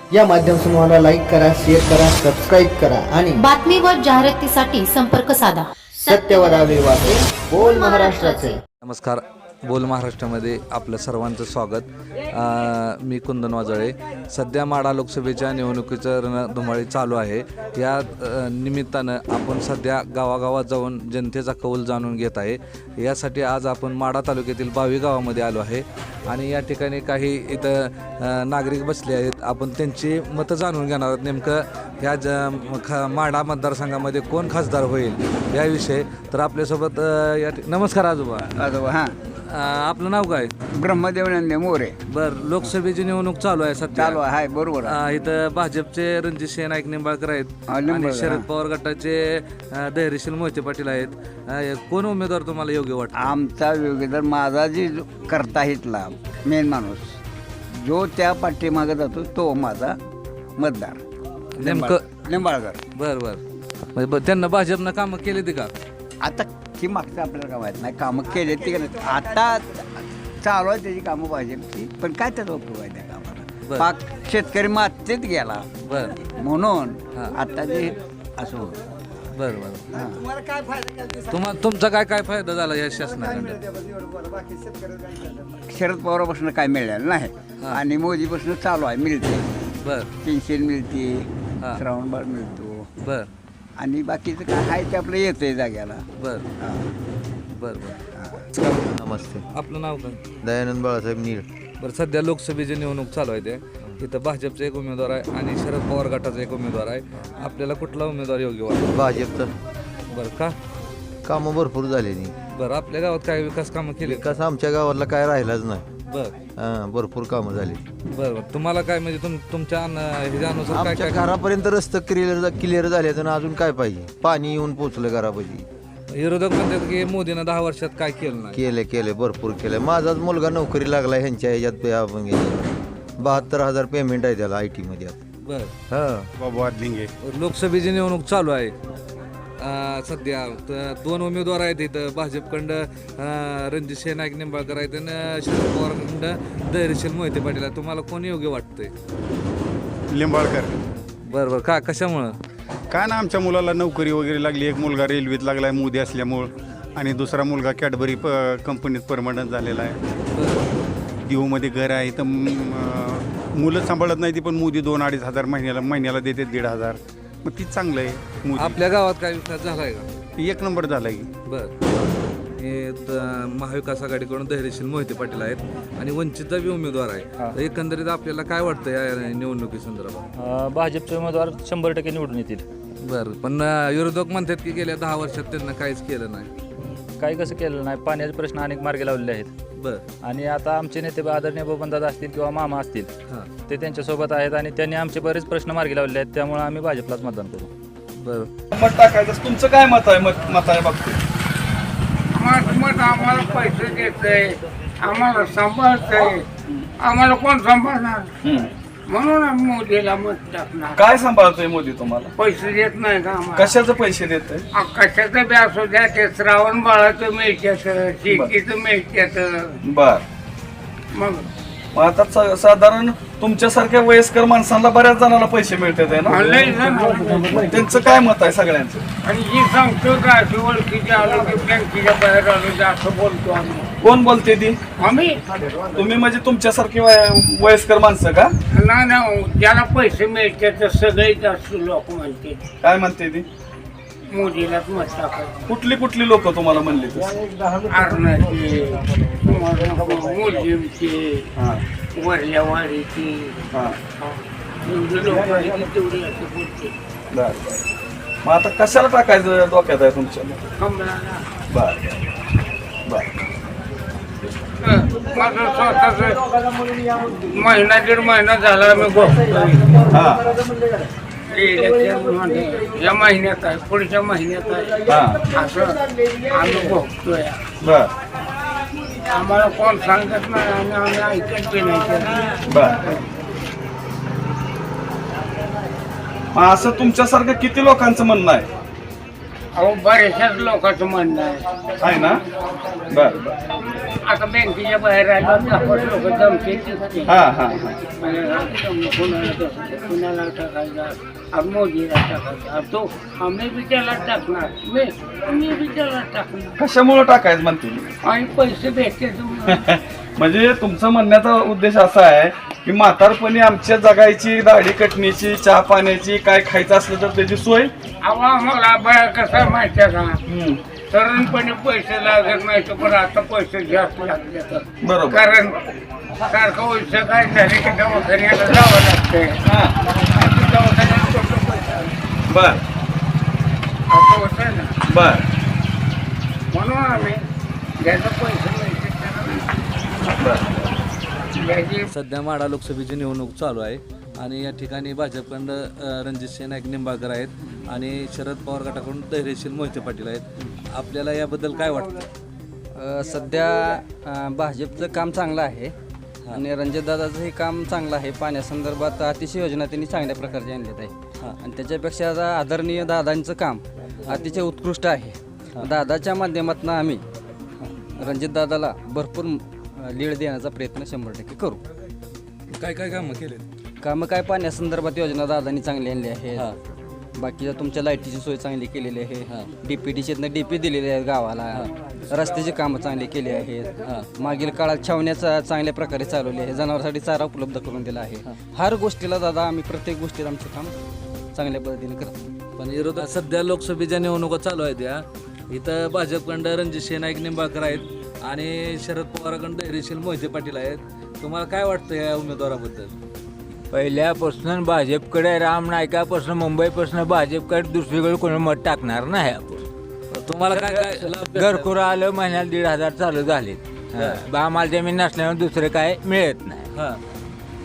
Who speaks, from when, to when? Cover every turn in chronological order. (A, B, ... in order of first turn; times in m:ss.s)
0:00.1-0:03.4 A
0:03.4-0:08.6 B
0:06.0-0:08.6 A
0:08.8-0:38.6 C
0:38.6-0:39.1 D
0:39.5-0:40.5 C
0:40.8-0:42.0 D
0:42.1-0:44.2 C
0:43.9-0:45.0 D
0:44.8-0:53.4 C
0:47.8-0:48.5 D
0:53.2-0:57.2 D
0:57.8-1:00.0 D
1:00.6-1:01.0 D
1:01.6-1:02.1 C
1:01.6-1:02.8 D
1:03.0-1:03.4 C
1:04.0-1:05.7 C
1:06.2-1:15.7 D
1:15.8-1:16.2 C
1:16.3-1:18.0 D
1:18.4-1:18.8 E
1:19.3-1:19.9 C
1:19.9-1:20.2 D
1:21.3-1:23.6 C
1:25.7-1:29.5 D
1:29.8-1:30.1 C
1:30.2-1:32.9 D
1:33.0-1:33.3 C
1:33.8-1:36.0 D
1:36.2-1:36.5 C
1:36.6-1:36.9 D
1:37.6-1:38.0 C
1:38.2-1:38.4 D
1:38.5-1:39.0 C
1:38.9-1:39.4 F
1:39.6-1:40.2 C
1:40.4-1:41.4 F
1:41.8-1:49.0 C
1:48.9-1:49.5 F
1:50.1-1:50.5 C
1:51.2-1:52.3 F
1:52.5-1:54.2 C
1:54.0-1:55.8 F
1:56.1-1:56.3 C
1:56.6-1:57.8 F
1:58.1-2:01.4 C
2:00.7-2:05.6 F
2:06.1-2:08.6 C
2:08.5-2:12.7 F
2:13.2-2:15.2 F
2:15.4-2:16.3 C
2:16.4-2:17.1 G
2:17.3-2:18.7 C
2:19.6-2:28.9 C
2:30.1-2:30.8 G
2:31.3-2:32.4 C
2:32.9-2:40.0 G
2:40.3-2:40.7 C
2:41.3-2:48.8 G
2:48.6-2:50.1 C
2:50.4-2:51.3 G
2:51.5-2:51.7 C
2:52.6-3:00.3 C
3:00.4-3:02.6 H
3:03.0-3:06.5 C
3:07.2-3:09.5 H
3:09.8-3:10.0 C
3:10.2-3:13.1 H
3:13.7-3:17.7 H
3:18.2-3:18.5 C
3:18.7-3:21.2 I
3:22.3-3:26.5 J
3:27.0-3:28.3 J
3:28.4-3:28.7 I
3:29.1-3:31.0 J
3:31.0-3:32.3 I
3:32.4-3:33.8 J
3:33.6-3:34.6 I
3:34.7-3:39.8 J
3:39.8-3:40.2 I
3:41.1-3:41.5 J
3:41.9-3:46.5 I
3:46.2-3:47.5 J
3:47.6-3:49.1 I
3:49.2-3:53.9 J
3:54.0-3:54.8 I
3:55.0-3:55.4 J
3:55.9-3:58.5 I
3:58.7-4:02.7 J
4:02.8-4:03.5 I
4:04.3-4:05.6 J
4:05.7-4:07.4 I
4:07.8-4:11.5 J
4:11.6-4:11.8 I
4:12.1-4:13.6 J
4:14.2-4:17.0 J
4:17.3-4:17.8 I
4:18.4-4:20.7 I
4:20.8-4:21.5 J
4:21.7-4:22.2 I
4:23.1-4:23.3 I
4:24.8-4:26.4 J
4:27.2-4:30.2 J
4:30.1-4:30.4 I
4:31.5-4:37.6 J
4:35.1-4:35.5 I
4:37.8-4:38.1 I
4:39.3-4:43.2 J
4:42.7-4:43.0 I
4:46.5-4:48.7 I
4:49.7-4:51.6 J
4:52.0-4:52.4 I
4:53.1-4:53.6 I
4:54.1-4:57.4 J
4:57.3-4:58.1 I
4:58.1-5:06.8 J
5:06.8-5:08.1 I
5:08.2-5:09.8 J
5:09.7-5:17.9 I
5:18.2-5:20.4 J
5:20.5-5:20.8 I
5:21.1-5:25.8 J
5:25.0-5:25.4 I
5:26.4-5:29.6 J
5:29.7-5:30.0 I
5:30.2-5:32.1 J
5:32.5-5:32.8 I
5:34.1-5:35.0 J
5:35.1-5:35.5 I
5:36.7-5:37.5 J
5:38.0-5:40.9 J
5:40.4-5:40.7 I
5:41.5-5:42.1 J
5:42.1-5:52.3 C
5:53.0-5:55.9 K
5:56.5-6:07.2 K
6:08.2-6:11.8 K
6:12.7-6:13.7 C
6:14.0-6:16.7 K
6:17.4-6:30.9 K
6:31.5-6:32.5 K
6:32.8-6:43.1 C
6:43.9-6:49.9 E
6:50.3-6:51.9 C
6:51.5-6:56.9 E
6:54.1-6:54.4 C
6:56.9-6:57.2 C